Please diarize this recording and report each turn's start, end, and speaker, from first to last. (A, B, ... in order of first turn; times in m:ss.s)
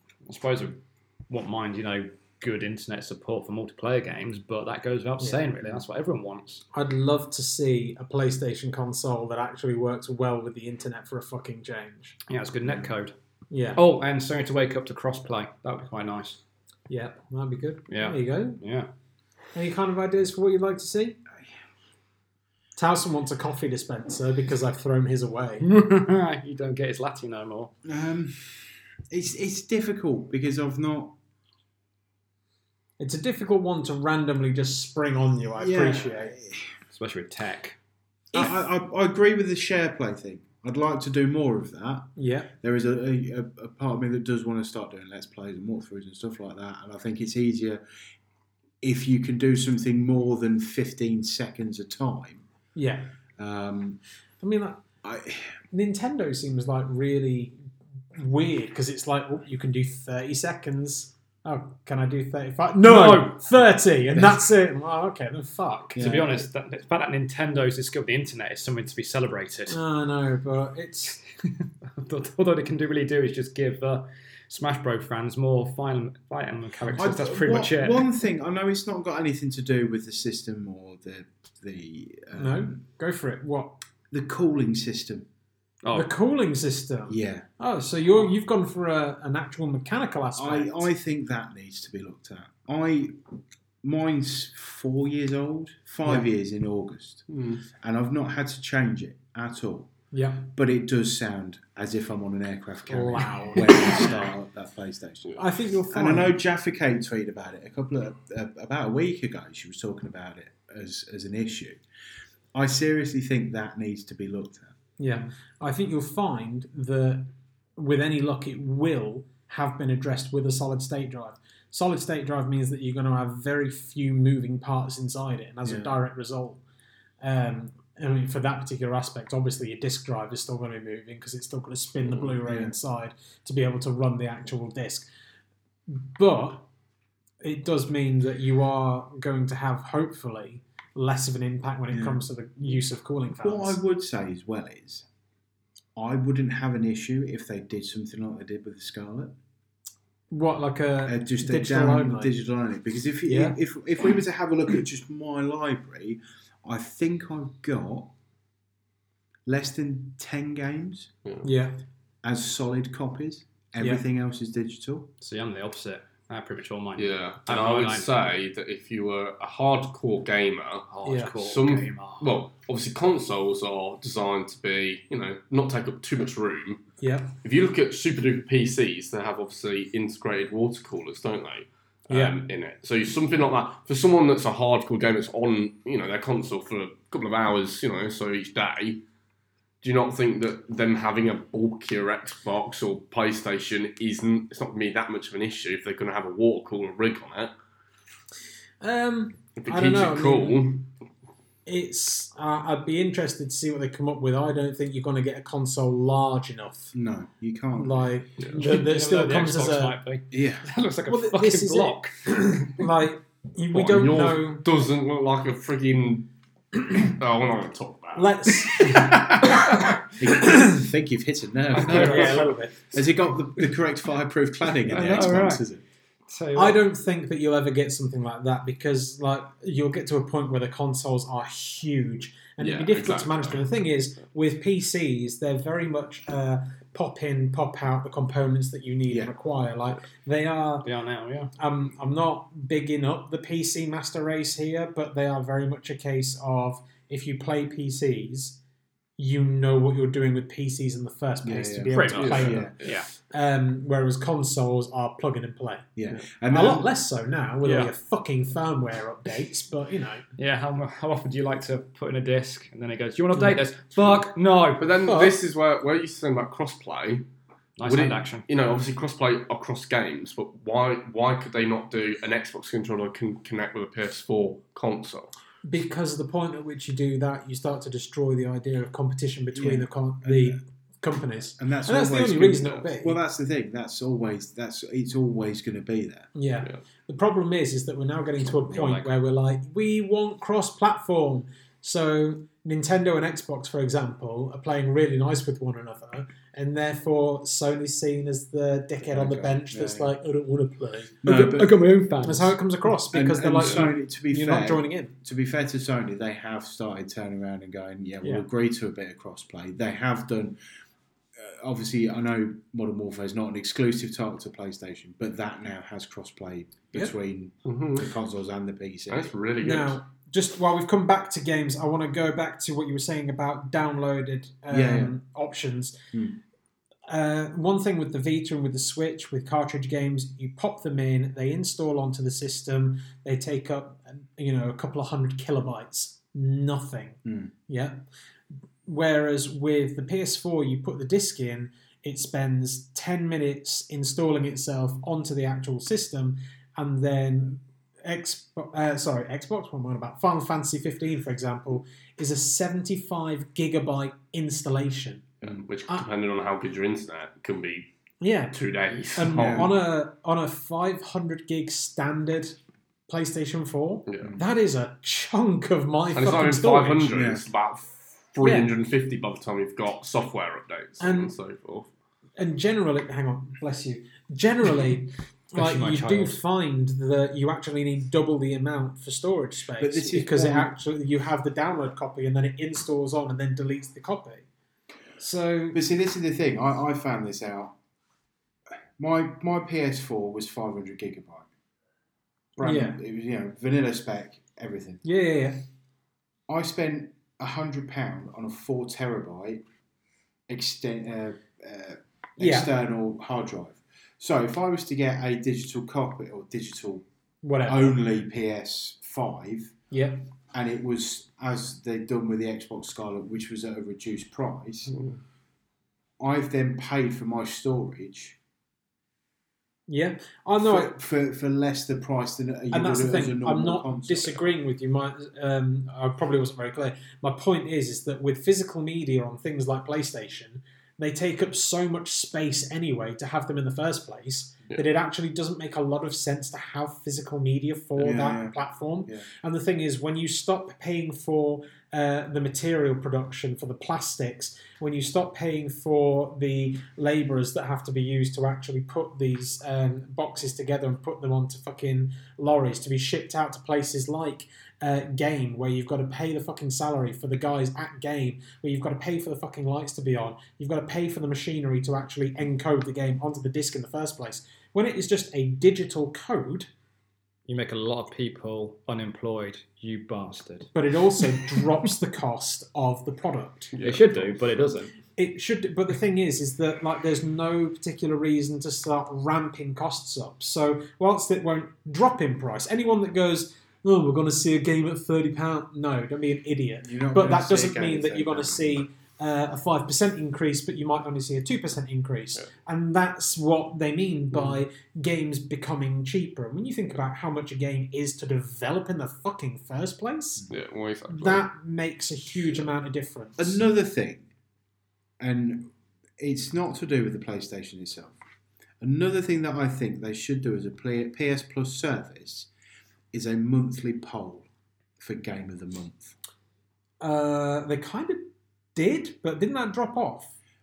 0:00.3-0:06.6 A
0:06.7-0:12.2 B
0:12.3-0:13.2 A
0:13.5-0:13.8 B
0:13.8-0:16.4 A
0:16.9-0:18.6 B
0:17.9-0:18.9 A
0:19.5-0:21.2 B
0:22.8-0:25.6 B
0:25.6-0:27.7 A
0:27.8-0:31.2 C
0:33.0-0:36.4 B
0:35.6-0:36.7 C
0:36.9-0:37.8 A
0:38.3-0:42.1 C
0:42.2-0:42.5 B
0:42.6-0:47.8 C
0:48.8-0:52.4 C
0:52.8-0:53.1 B
0:53.4-0:54.0 C
0:54.4-0:54.8 B
0:55.0-0:55.6 C
0:55.7-0:57.6 B
0:58.2-1:06.1 B
1:02.8-1:03.6 A
1:06.0-1:06.3 C
1:06.0-1:09.8 A
1:09.7-1:11.2 B
1:11.9-1:18.1 A
1:17.0-1:22.8 C
1:22.4-1:23.8 B
1:24.1-1:25.3 C
1:25.8-1:26.1 A
1:25.9-1:30.9 B
1:27.1-1:27.5 C
1:30.4-1:33.2 C
1:33.8-1:37.3 C
1:37.3-1:37.6 D
1:37.8-1:39.9 C
1:40.1-1:40.5 B
1:40.4-1:51.8 C
1:42.9-1:44.2 B
1:45.4-1:46.4 B
1:52.5-1:54.8 C
1:55.0-2:06.6 B
2:05.6-2:06.0 C
2:07.2-2:15.1 B
2:12.1-2:12.7 C
2:15.9-2:16.7 B
2:17.4-2:23.8 B
2:21.9-2:25.0 C
2:26.0-2:29.4 C
2:30.3-2:32.3 B
2:31.0-2:38.1 C
2:33.3-2:33.6 B
2:39.5-2:41.1 C
2:41.4-2:41.8 B
2:42.2-2:45.1 C
2:45.2-2:48.1 A
2:47.0-2:56.9 D
2:50.9-2:52.4 A
2:51.0-2:51.4 B
2:57.0-2:57.4 B
2:57.4-3:09.0 D
3:02.1-3:02.4 B
3:09.8-3:17.5 D
3:18.8-3:20.7 B
3:19.6-3:20.9 D
3:21.7-3:26.9 B
3:26.9-3:28.0 C
3:27.8-3:30.0 B
3:28.5-3:32.2 A
3:30.3-3:30.7 C
3:31.1-3:34.6 B
3:33.7-3:39.1 D
3:38.2-3:39.6 B
3:40.2-3:45.8 C
3:41.8-3:42.5 A
3:41.8-3:42.8 B
3:44.9-3:45.6 A
3:46.3-3:46.8 A
3:46.6-4:00.9 B
3:52.6-3:53.7 D
3:59.1-3:59.3 C
4:00.8-4:01.5 A
4:01.6-4:08.6 B
4:09.2-4:15.9 B
4:11.4-4:12.8 C
4:11.9-4:13.1 A
4:12.1-4:13.0 D
4:16.0-4:16.9 C
4:16.5-4:20.2 B
4:17.6-4:17.9 A
4:20.4-4:24.9 A
4:24.8-4:27.3 D
4:25.1-4:25.4 B
4:27.8-4:28.4 A
4:27.8-4:35.3 D
4:35.6-4:43.2 B
4:39.5-4:40.6 C
4:41.6-4:46.3 C
4:46.4-5:01.2 B
4:48.4-4:49.1 A
4:59.0-5:00.2 C
5:01.2-5:01.8 C
5:01.2-5:02.6 A
5:02.2-5:05.2 B
5:03.1-5:10.6 C
5:11.4-5:19.3 C
5:17.6-5:18.1 D
5:19.1-5:20.0 D
5:19.6-5:26.0 B
5:24.7-5:25.1 C
5:26.1-5:26.4 C
5:27.1-5:38.0 B
5:37.2-5:37.5 C
5:38.9-5:55.3 B
5:55.4-5:57.9 D
5:58.2-5:58.6 B
5:58.5-5:59.8 D
5:59.2-6:02.6 B
5:59.3-5:59.7 C
6:03.1-6:07.1 B
6:04.1-6:04.3 D
6:06.1-6:11.9 D
6:07.1-6:07.4 C
6:08.4-6:08.7 B
6:11.0-6:11.3 B
6:12.4-6:24.5 B
6:15.6-6:16.4 A
6:19.8-6:20.8 C
6:25.2-6:25.8 B
6:25.7-6:27.8 C
6:29.0-6:31.5 C
6:32.6-6:35.0 C
6:32.6-6:33.0 B
6:35.0-6:35.6 B
6:36.5-6:39.6 C
6:40.5-6:47.0 C
6:42.4-6:42.7 B
6:47.4-6:48.0 B
6:47.6-6:49.8 C
6:49.9-6:50.3 B
6:50.5-6:55.0 C
6:54.9-6:55.2 D
6:56.2-6:58.4 C
6:59.9-7:00.9 B
7:00.6-7:04.5 C
7:02.7-7:46.7 B
7:18.0-7:19.3 C
7:47.5-7:50.7 A
7:50.7-7:53.7 B
7:53.7-7:54.4 D
7:53.8-7:54.9 A
7:55.2-8:20.5 B
8:06.8-8:08.9 C
8:14.3-8:14.6 C
8:20.5-8:21.5 D
8:21.1-8:23.6 B
8:23.4-8:24.3 C
8:25.2-8:28.2 C
8:28.8-8:32.5 C
8:33.1-8:34.5 C
8:35.0-8:36.1 C
8:37.0-8:40.3 B